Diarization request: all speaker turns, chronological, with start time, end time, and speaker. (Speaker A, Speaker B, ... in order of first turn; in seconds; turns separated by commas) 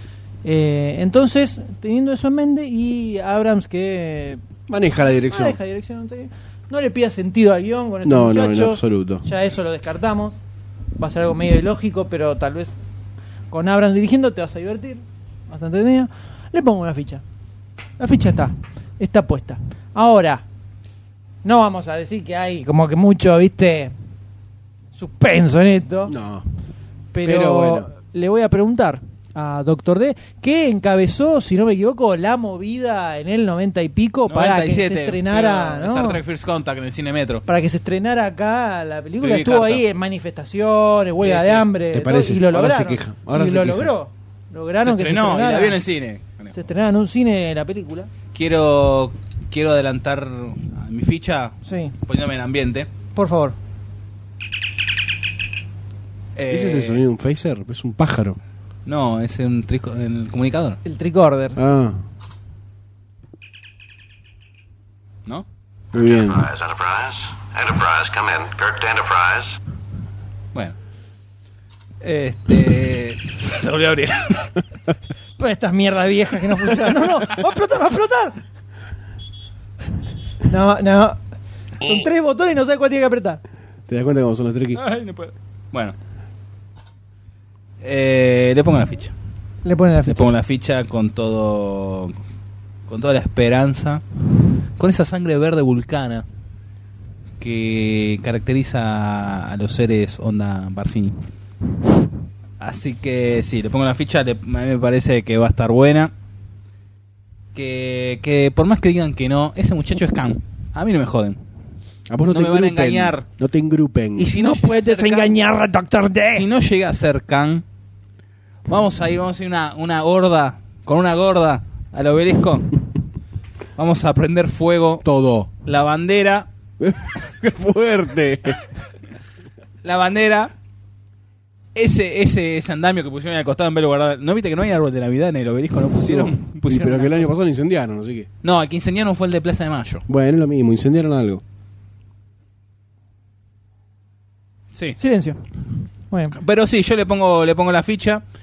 Speaker A: 0.4-4.4, Speaker B: 4.7-5.6, Speaker A: 5.3-10.4, Speaker B: 8.1-9.2, Speaker A: 11.0-12.7, Speaker A: 13.5-17.2, Speaker A: 18.0-20.4, Speaker A: 21.4-23.9, Speaker A: 24.9-26.1, Speaker B: 26.1-26.5, Speaker A: 27.1-36.2, Speaker B: 27.2-27.9, Speaker C: 34.3-37.5, Speaker A: 37.5-45.8, Speaker C: 39.2-39.8, Speaker C: 41.2-41.7, Speaker B: 41.9-43.9, Speaker C: 44.8-46.5, Speaker A: 46.5-48.1, Speaker C: 48.3-52.9, Speaker A: 51.6-51.9, Speaker A: 53.1-53.6, Speaker C: 56.4-57.0, Speaker B: 56.5-58.4, Speaker C: 58.9-60.8, Speaker A: 60.9-61.6, Speaker B: 61.6-62.0, Speaker B: 65.9-66.6, Speaker D: 66.5-69.6, Speaker C: 72.0-74.6, Speaker A: 75.4-78.4, Speaker A: 80.5-81.2, Speaker A: 81.8-83.4, Speaker B: 83.9-84.8, Speaker C: 84.8-86.0, Speaker C: 87.8-89.1, Speaker A: 89.7-90.3, Speaker C: 90.1-92.2, Speaker C: 92.9-94.0, Speaker C: 94.8-96.2, Speaker C: 97.4-101.2, Speaker C: 102.6-106.1, Speaker C: 107.5-111.4, Speaker B: 112.1-114.3, Speaker C: 112.3-113.3, Speaker C: 114.2-115.3, Speaker A: 114.3-116.5, Speaker C: 116.3-117.6, Speaker C: 118.7-122.8, Speaker C: 123.8-125.0, Speaker B: 125.0-125.5, Speaker C: 125.6-126.5, Speaker B: 126.8-128.6, Speaker C: 129.8-130.5, Speaker C: 131.8-137.3, Speaker B: 136.1-138.3, Speaker C: 138.4-140.1, Speaker B: 140.1-141.4, Speaker A: 145.0-145.4, Speaker A: 146.1-146.4, Speaker C: 146.4-148.2